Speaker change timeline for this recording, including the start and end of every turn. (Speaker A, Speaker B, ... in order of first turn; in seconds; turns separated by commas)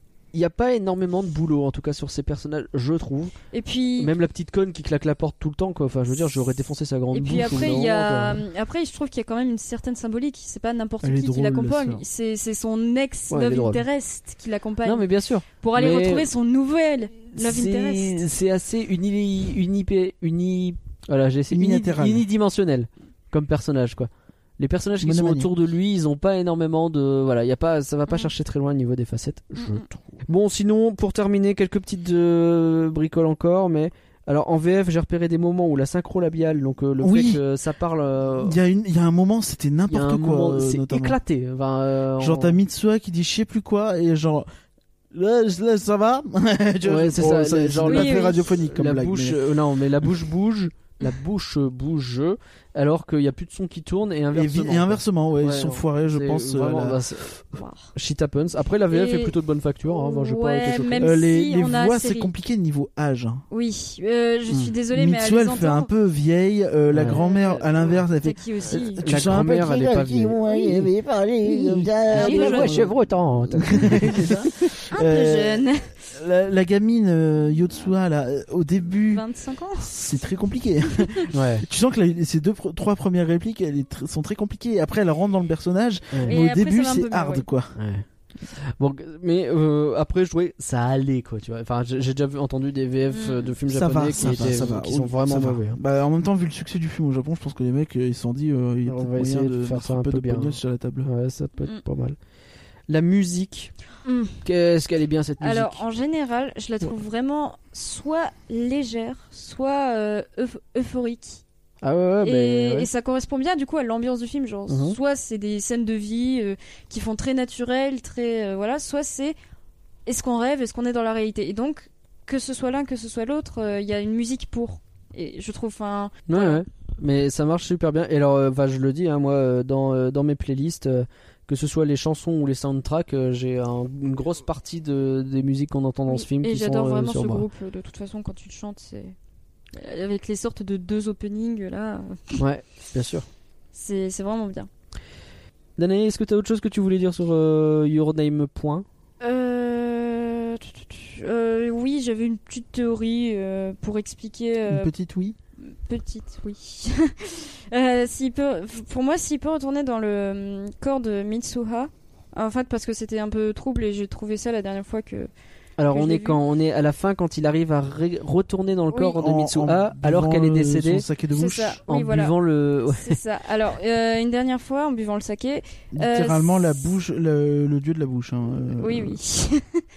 Speaker A: 0.3-3.3, Speaker B: 3.5-4.1, Speaker A: 4.0-8.4, Speaker B: 7.1-18.2, Speaker C: 11.0-12.0, Speaker A: 13.3-13.8, Speaker A: 14.8-16.3, Speaker A: 17.4-38.6, Speaker C: 21.5-22.3, Speaker C: 25.0-25.5, Speaker B: 29.6-29.9, Speaker C: 37.0-37.4, Speaker C: 38.4-41.2, Speaker A: 39.9-42.6, Speaker C: 42.2-44.5, Speaker C: 45.1-49.4, Speaker A: 46.9-57.4, Speaker B: 47.9-48.5, Speaker C: 54.3-57.0, Speaker B: 57.5-57.9, Speaker A: 57.9-61.1, Speaker B: 58.9-59.4, Speaker B: 59.9-62.3, Speaker C: 61.0-63.4, Speaker B: 63.5-65.9, Speaker C: 64.9-72.9, Speaker A: 66.9-67.2, Speaker B: 67.0-69.0, Speaker A: 69.0-70.9, Speaker A: 71.4-74.6, Speaker B: 72.1-72.9, Speaker C: 73.5-79.2, Speaker B: 74.9-75.9, Speaker B: 79.1-79.9, Speaker C: 79.8-87.8, Speaker A: 81.3-81.7, Speaker A: 86.1-86.4, Speaker B: 86.3-87.5, Speaker A: 87.8-95.8, Speaker B: 93.1-93.5, Speaker C: 93.7-101.1, Speaker A: 98.9-102.2, Speaker A: 102.9-103.8, Speaker B: 104.0-104.4, Speaker A: 104.4-105.8, Speaker B: 105.4-111.4, Speaker A: 111.8-112.9, Speaker B: 112.2-119.4, Speaker A: 114.7-115.0, Speaker B: 120.1-126.6, Speaker A: 126.3-137.4, Speaker B: 136.1-139.2, Speaker B: 139.7-142.4, Speaker A: 142.4-143.3, Speaker B: 143.7-144.7, Speaker A: 145.8-148.9, Speaker B: 149.2-154.9, Speaker C: 154.7-155.4, Speaker B: 155.6-165.3, Speaker A: 165.8-171.1, Speaker B: 165.9-166.4, Speaker B: 168.9-169.2, Speaker C: 169.2-171.8, Speaker B: 171.3-176.9, Speaker A: 171.9-173.2, Speaker C: 175.9-179.2, Speaker B: 178.8-179.8